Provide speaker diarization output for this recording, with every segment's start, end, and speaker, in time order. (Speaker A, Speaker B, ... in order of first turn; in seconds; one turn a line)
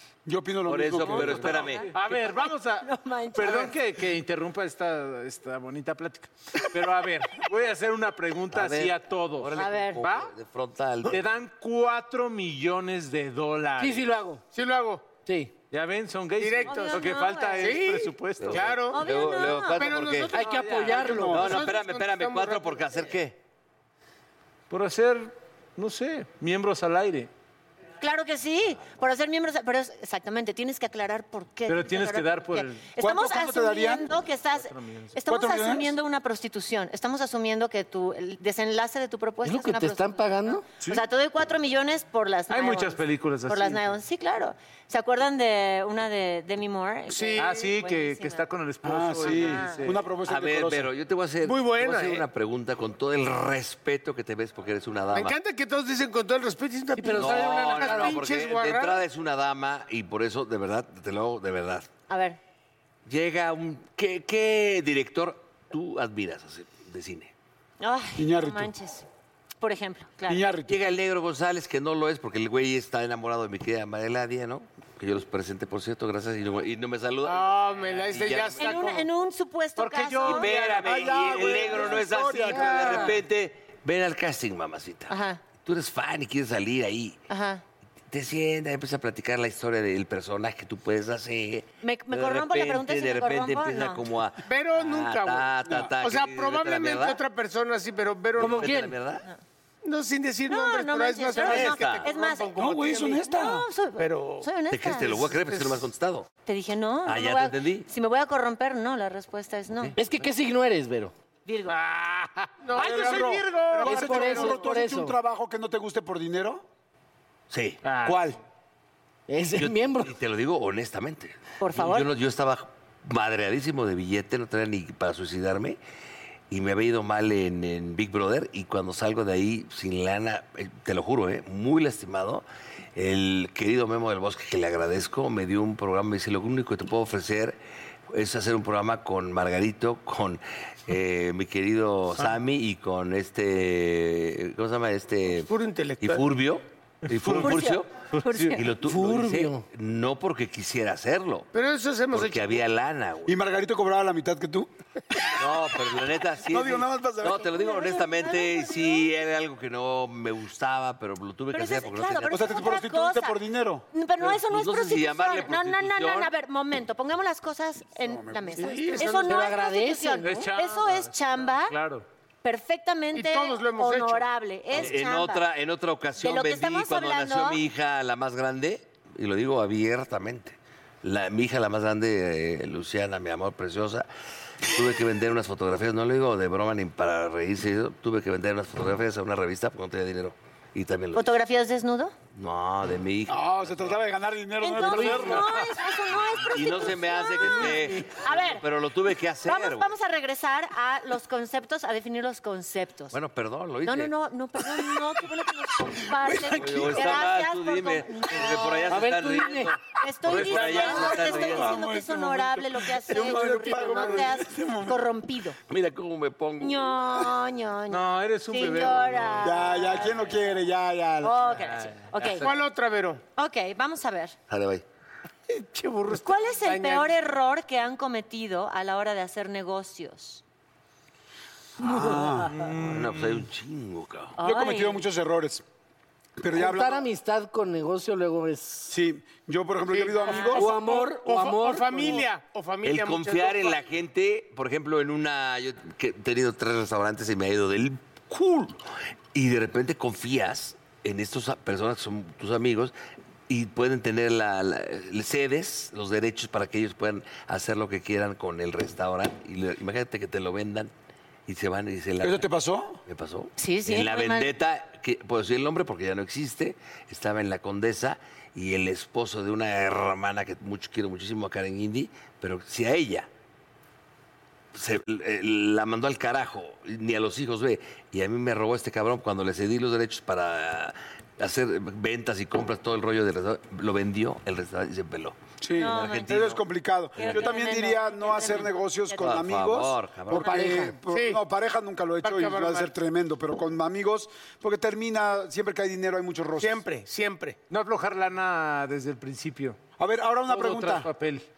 Speaker A: 0.2-1.7
Speaker B: 0.7-2.2
Speaker C: 1.0-2.1
Speaker D: 1.9-10.3
Speaker C: 2.8-3.8
Speaker B: 8.5-11.2
Speaker C: 9.6-10.0
Speaker D: 11.0-14.1
Speaker E: 13.8-14.4
Speaker F: 14.5-15.2
Speaker E: 15.2-15.5
Speaker D: 15.7-18.7
Speaker F: 16.4-17.1
Speaker C: 16.7-17.8
Speaker F: 17.6-19.0
Speaker B: 18.4-20.3
Speaker C: 18.9-19.9
Speaker F: 19.8-22.8
Speaker E: 20.3-21.7
Speaker D: 20.3-21.1
Speaker A: 20.9-21.6
Speaker B: 21.3-23.4
Speaker D: 24.7-27.3
Speaker C: 28.0-48.4
Speaker D: 31.7-32.9
Speaker A: 33.0-34.1
Speaker D: 34.5-35.1
Speaker A: 35.3-36.0
Speaker E: 39.4-40.7
Speaker D: 42.5-44.0
Speaker F: 47.1-47.7
Speaker D: 47.4-50.0
Speaker A: 48.8-50.9
Speaker C: 49.2-49.8
Speaker B: 50.2-55.4
Speaker F: 51.4-52.2
Speaker F: 55.1-59.0
Speaker E: 56.9-58.2
Speaker B: 57.1-61.9
Speaker C: 62.1-62.4
Speaker B: 63.0-67.3
Speaker C: 67.8-69.0
Speaker A: 68.2-68.7
Speaker C: 69.6-70.5
Speaker A: 70.3-70.8
Speaker B: 70.7-78.8
Speaker F: 77.2-79.1
Speaker C: 78.6-80.5
Speaker D: 79.8-80.8
Speaker B: 80.2-87.2
Speaker A: 80.8-83.2
Speaker E: 82.4-83.2
Speaker C: 85.1-85.4
Speaker C: 87.3-87.6
Speaker B: 88.1-97.2
Speaker C: 91.8-94.0
Speaker F: 94.5-98.7
Speaker A: 95.6-95.9
Speaker B: 98.3-99.2
Speaker E: 98.4-99.0
Speaker F: 99.8-103.3
Speaker C: 100.5-105.3
Speaker B: 101.4-102.1
Speaker A: 102.5-103.7
Speaker F: 104.0-104.5
Speaker B: 104.7-106.3
Speaker C: 106.5-109.9
Speaker B: 107.0-107.9
Speaker E: 110.0-111.1
Speaker C: 111.5-111.8
Speaker D: 111.7-113.3
Speaker F: 112.6-114.7
Speaker A: 112.8-116.6
Speaker E: 113.8-115.2
Speaker B: 117.5-118.3
Speaker D: 117.8-118.2
Speaker A: 118.0-118.3
Speaker E: 119.3-120.2
Speaker B: 119.5-125.8
Speaker C: 121.6-122.1
Speaker B: 126.5-132.4
Speaker B: 132.9-137.6
Speaker B: 138.1-147.9
Speaker F: 145.5-146.2
Speaker D: 147.1-148.5
Speaker C: 147.4-148.6
Speaker B: 148.5-151.5
Speaker E: 148.8-149.6
Speaker F: 151.5-152.6
Speaker B: 152.1-153.4
Speaker A: 153.2-155.3
Speaker B: 155.3-162.6
Speaker A: 156.4-157.5
Speaker C: 157.3-159.1
Speaker C: 161.5-163.4
Speaker A: 162.3-163.8
Speaker C: 163.9-171.8
Speaker B: 164.2-166.3
Speaker A: 168.0-168.9
Speaker F: 168.6-169.5
Speaker E: 169.2-170.5
Speaker D: 170.2-172.0
Speaker C: 172.4-175.4
Speaker F: 173.1-174.2
Speaker B: 174.7-184.1
Speaker C: 176.2-177.6
Speaker B: 184.6-191.3
Speaker C: 191.1-192.2
Speaker B: 192.3-194.0
Speaker A: 193.3-195.6
Speaker C: 194.6-198.6
Speaker D: 195.0-195.4
Speaker B: 196.5-199.9
Speaker C: 199.4-203.1
Speaker B: 203.1-204.1
Speaker C: 203.8-208.9
Speaker B: 206.4-211.8
Speaker E: 208.9-209.8
Speaker C: 210.0-215.6
Speaker D: 210.3-211.1
Speaker A: 210.4-215.0
Speaker B: 215.7-217.0
Speaker C: 216.6-220.1
Speaker D: 217.9-219.6
Speaker A: 219.4-221.4
Speaker C: 221.2-222.5
Speaker F: 222.4-223.2
Speaker C: 223.3-224.3
Speaker B: 224.5-224.8
Speaker F: 225.5-227.1
Speaker C: 226.1-230.4
Speaker A: 231.8-232.6
Speaker E: 231.8-232.3
Speaker D: 232.4-233.4
Speaker B: 232.7-234.3
Speaker C: 234.4-235.0
Speaker A: 234.4-235.6
Speaker A: 236.4-237.1
Speaker E: 236.5-238.9
Speaker A: 238.9-240.7
Speaker F: 239.9-243.8
Speaker C: 240.2-240.5
Speaker E: 240.5-242.3
Speaker B: 242.8-248.8
Speaker B: 249.3-252.9
Speaker B: 253.5-260.9
Speaker B: 261.4-262.5
Speaker A: 262.2-263.0
Speaker B: 263.0-273.3
Speaker C: 263.6-264.5
Speaker B: 274.7-286.6
Speaker A: 285.6-296.8
Speaker C: 285.8-286.4
Speaker C: 287.1-289.4
Speaker B: 287.2-287.5
Speaker B: 289.2-290.7
Speaker E: 290.5-290.9
Speaker F: 291.0-291.4
Speaker F: 292.2-292.9
Speaker F: 296.6-297.6
Speaker D: 297.7-299.8
Speaker A: 300.0-301.1
Speaker D: 300.5-301.4